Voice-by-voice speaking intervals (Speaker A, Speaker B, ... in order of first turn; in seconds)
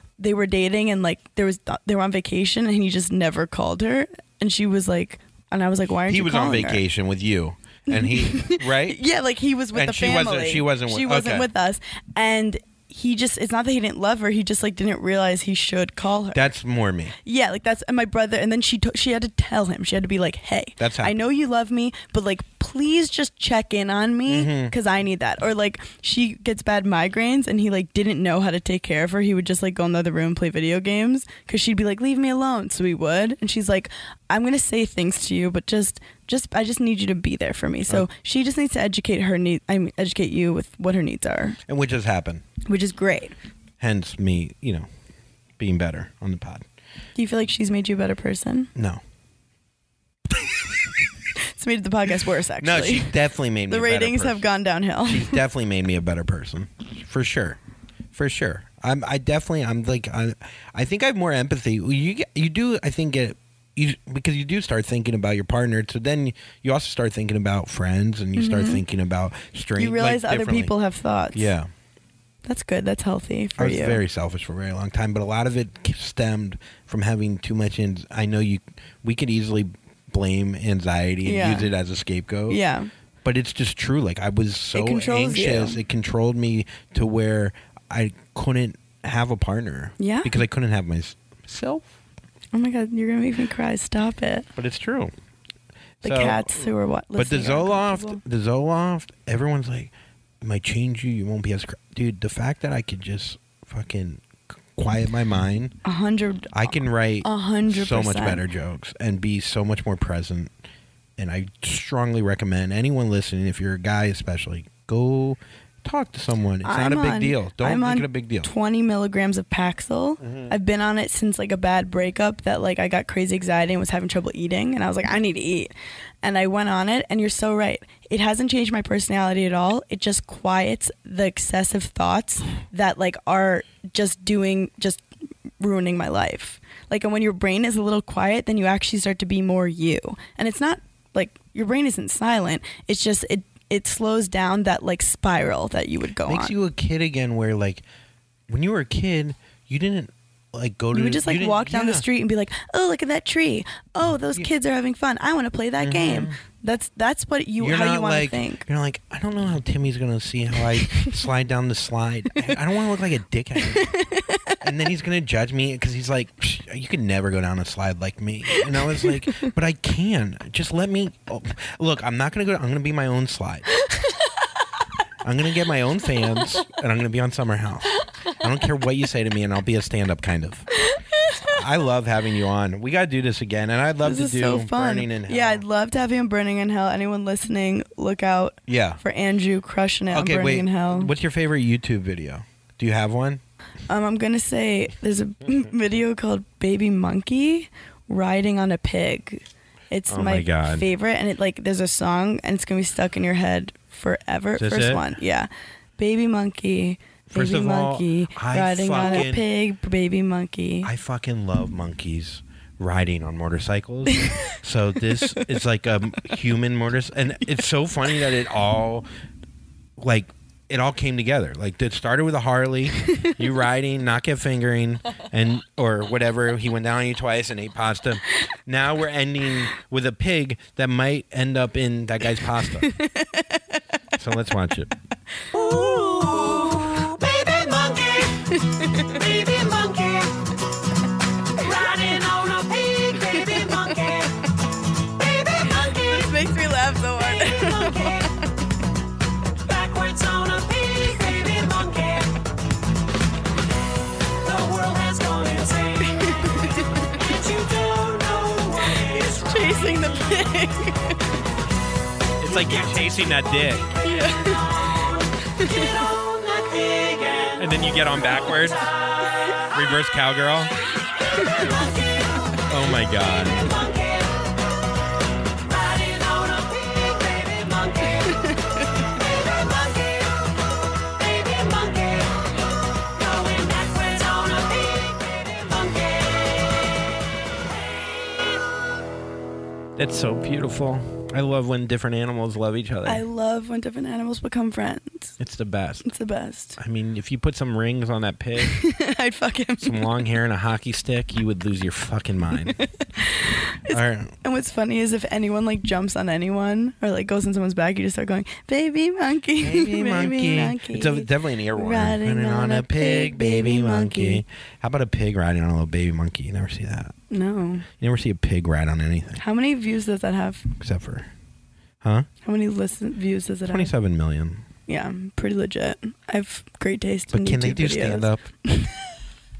Speaker A: 0.2-6.8, 7.9-16.5, 17.2-41.6, 42.6-43.3, 47.1-48.7, 51.4-53.1, 53.7-55.4, 68.3-68.8, 69.8-71.5, 72.5-74.0, 81.2-81.7, 82.5-82.9, 84.7-85.8, 90.0-90.3, 92.5-94.5, 96.0-98.2, 105.8-108.4, 116.6-125.7, 126.2-135.0, 135.6-146.5, 150.9-158.6, 160.8-161.1, 163.6-164.6, 168.5-168.8, 180.8-181.6, 184.0-191.1, 193.9-210.9, 214.1-214.5, 232.8-233.6, 238.8-239.1, 246.0-248.3, 256.1-257.1, 258.9-261.3, 264.0-266.1, 278.3-278.8, 293.1-295.3, 296.0-296.8, 298.6-300.1, 302.7-314.4, 317.3-317.9, 319.4-320.7, 322.4-323.9, 324.9-329.1
Speaker B: 6.1-9.0, 9.7-11.5, 16.3-17.1, 20.8-21.1, 24.3-24.7, 41.7-42.4, 43.8-44.9, 45.6-46.6, 48.7-49.0, 52.6-54.5, 55.0-57.6, 58.1-70.7, 71.3-71.7, 73.6-82.6, 83.2-91.9, 94.5-95.1, 96.0-105.8, 106.5-110.5, 111.2-118.5, 120.2-120.5, 146.2-147.8, 148.5-152.0, 155.8-156.4, 157.6-163.9, 164.6-173.7, 175.2-180.7, 181.4-185.6, 188.7-189.0, 190.1-193.4, 200.1-200.8, 204.6-205.1, 207.3-209.4, 210.8-219.1, 220.0-232.9, 234.2-234.9, 262.4-263.9, 267.6-268.9, 269.7-270.7, 272.6-273.8, 290.0-293.2, 295.4-296.1, 296.8-298.7, 299.8-302.8, 303.9-304.3, 309.6-317.1, 317.9-319.4, 320.8-321.3, 322.0-322.3, 323.7-324.6, 327.3-328.5
Speaker C: 235.5-240.4, 241.6-244.4, 245.2-246.3, 247.4-248.3, 249.6-252.4, 254.3-260.3, 264.2-267.6, 269.0-269.6, 271.4-272.3, 273.3-274.4, 275.5-278.6, 279.1-280.4, 281.1-282.5, 283.0-286.7